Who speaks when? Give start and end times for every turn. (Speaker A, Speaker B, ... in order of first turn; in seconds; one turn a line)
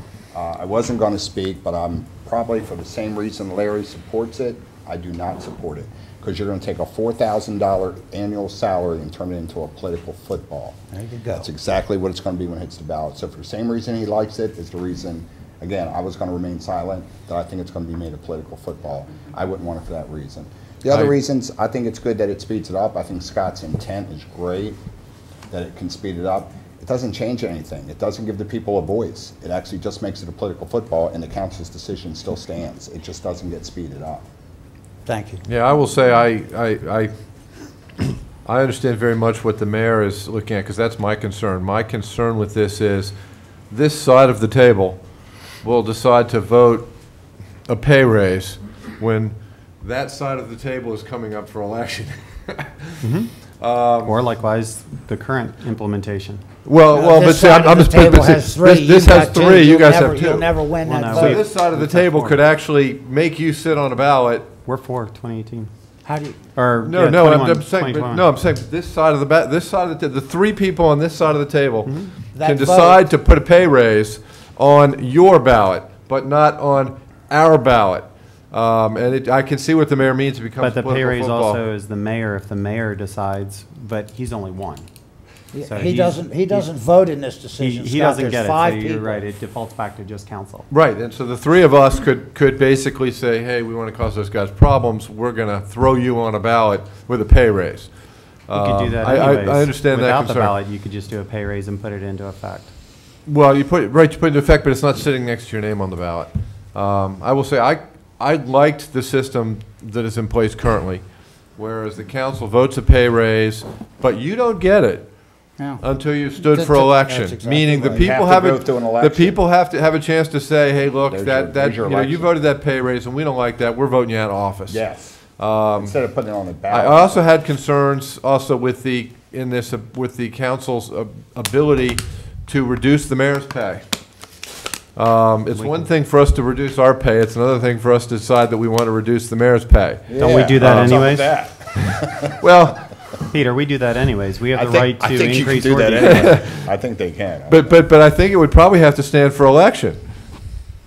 Speaker A: 0.3-10.8
Speaker B: 10.9-11.5
Speaker A: 11.4-24.8
Speaker C: 20.9-21.1
Speaker A: 25.5-34.2
Speaker B: 35.0-35.4
Speaker C: 35.5-37.1
Speaker C: 38.4-43.1
Speaker C: 43.7-45.0
Speaker C: 45.6-46.9
Speaker C: 47.7-54.1
Speaker D: 53.0-53.3
Speaker D: 54.0-56.4
Speaker C: 56.6-64.5
Speaker B: 56.9-61.4
Speaker D: 60.8-62.4
Speaker D: 64.7-65.7
Speaker B: 66.0-66.5
Speaker D: 66.5-68.2
Speaker C: 66.8-81.6
Speaker D: 71.8-72.1
Speaker B: 72.3-73.0
Speaker D: 80.6-84.9
Speaker B: 85.5-89.2
Speaker D: 85.6-86.7
Speaker D: 87.6-90.7
Speaker C: 90.7-97.9
Speaker C: 98.5-100.5
Speaker D: 98.5-102.7
Speaker C: 103.2-111.0
Speaker C: 111.5-115.1
Speaker C: 115.8-124.8
Speaker B: 116.4-118.1
Speaker A: 117.9-119.4
Speaker A: 121.1-122.3
Speaker A: 124.7-125.2
Speaker C: 125.4-126.0
Speaker A: 125.8-127.2
Speaker C: 126.7-133.8
Speaker C: 134.9-141.1
Speaker D: 135.5-135.9
Speaker A: 140.1-142.3
Speaker D: 140.1-141.2
Speaker C: 142.4-142.8
Speaker D: 143.3-146.3
Speaker A: 144.5-147.8
Speaker C: 146.0-146.7
Speaker C: 147.5-150.0